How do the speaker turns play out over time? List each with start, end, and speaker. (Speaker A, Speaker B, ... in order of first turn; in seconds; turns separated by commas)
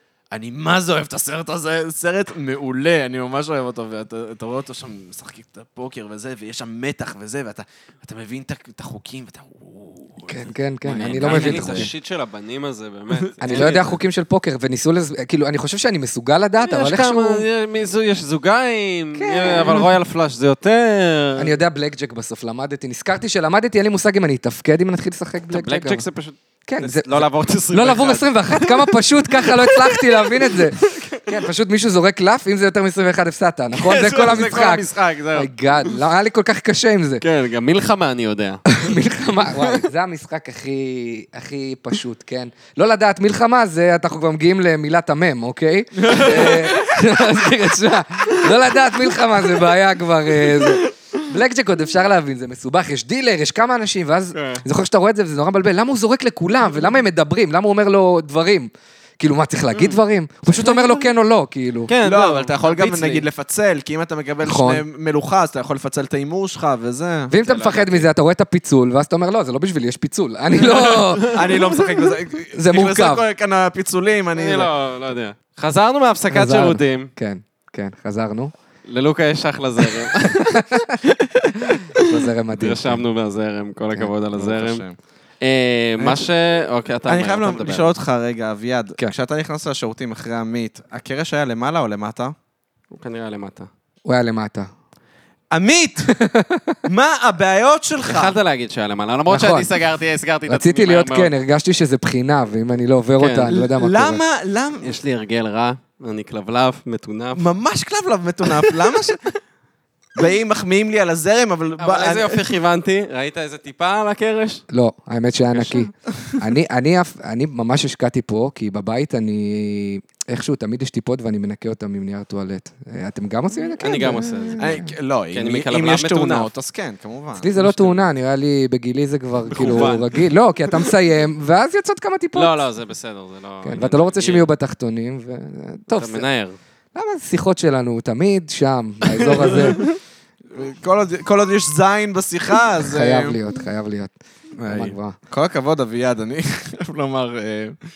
Speaker A: 0.3-10.4, Speaker B: 10.3-11.9, Speaker C: 10.8-14.0, Speaker A: 11.1-11.9, Speaker A: 13.3-13.6, Speaker B: 13.4-17.4, Speaker C: 16.6-21.5, Speaker B: 19.2-19.9, Speaker B: 21.4-26.0, Speaker C: 25.5-31.2, Speaker B: 26.7-37.2, Speaker C: 33.7-35.5, Speaker C: 37.2-38.6, Speaker B: 38.7-61.9, Speaker A: 46.0-46.7, Speaker C: 54.3-54.6, Speaker C: 59.7-60.0, Speaker C: 60.5-60.9, Speaker C: 61.9-63.2, Speaker A: 62.0-67.4, Speaker B: 64.4-64.8, Speaker B: 67.3-71.4, Speaker C: 67.4-68.0, Speaker C: 70.5-72.1, Speaker A: 71.3-74.7, Speaker B: 72.5-73.2, Speaker C: 74.3-77.1, Speaker B: 76.3-78.5, Speaker C: 78.8-80.6, Speaker B: 80.2-81.0, Speaker B: 81.9-83.0, Speaker C: 82.5-84.8, Speaker A: 84.3-85.0, Speaker C: 85.4-87.9, Speaker A: 87.1-92.3, Speaker C: 92.9-93.7, Speaker B: 94.0-94.7, Speaker A: 95.5-96.2, Speaker B: 96.1-96.8, Speaker A: 96.8-98.3, Speaker C: 98.0-101.3, Speaker B: 99.3-99.7, Speaker B: 100.5-104.2, Speaker C: 103.2-103.5, Speaker A: 103.5-105.0, Speaker C: 104.8-107.5, Speaker A: 107.3-109.3, Speaker A: 110.2-112.4, Speaker C: 111.8-114.6, Speaker B: 114.7-124.9, Speaker C: 115.5-115.8, Speaker C: 123.8-124.8, Speaker A: 124.6-128.0, Speaker C: 125.3-126.5, Speaker B: 127.4-132.6, Speaker C: 129.5-130.2, Speaker C: 132.3-134.5, Speaker B: 133.6-136.2, Speaker C: 135.9-136.6, Speaker B: 136.9-139.8, Speaker C: 139.2-139.9, Speaker A: 140.5-143.4, Speaker B: 142.8-145.2, Speaker A: 144.6-147.8